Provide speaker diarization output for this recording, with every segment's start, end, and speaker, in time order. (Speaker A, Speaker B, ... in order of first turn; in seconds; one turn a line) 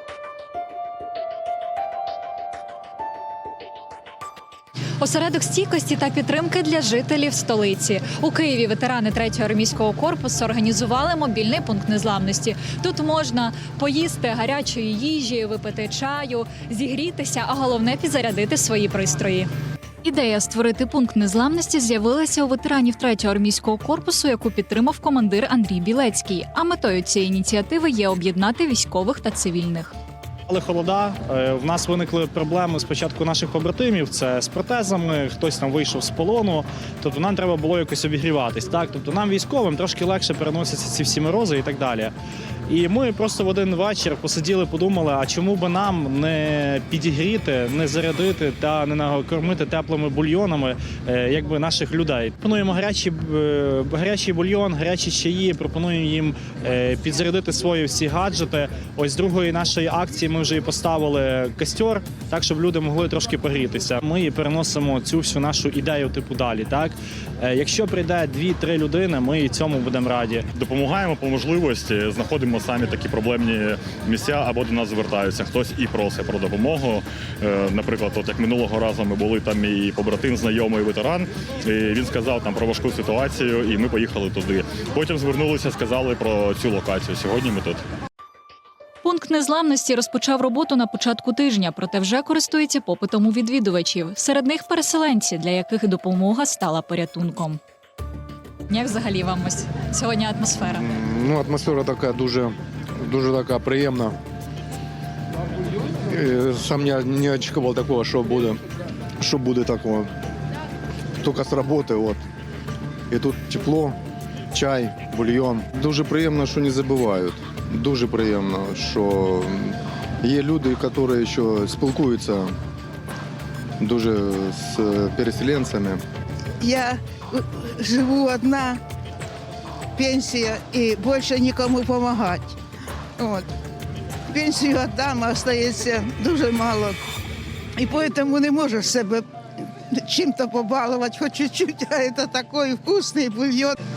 Speaker A: 5.0-19.5
Speaker A: 20.0-29.9
Speaker B: 30.5-42.1
Speaker B: 42.7-70.5
Speaker C: 70.5-87.8
Speaker A: 89.0-97.6
Speaker A: 98.7-100.9
Speaker D: 100.6-104.1
Speaker D: 106.1-108.6
Speaker D: 109.2-110.1
Speaker D: 111.2-112.2
Speaker D: 113.1-113.9
Speaker D: 114.5-122.5
Speaker D: 123.8-126.0
Speaker E: 126.6-128.8
Speaker E: 129.9-132.6
Speaker E: 133.2-133.5
Speaker E: 134.3-137.0
Speaker E: 137.8-139.2
Speaker E: 139.9-143.8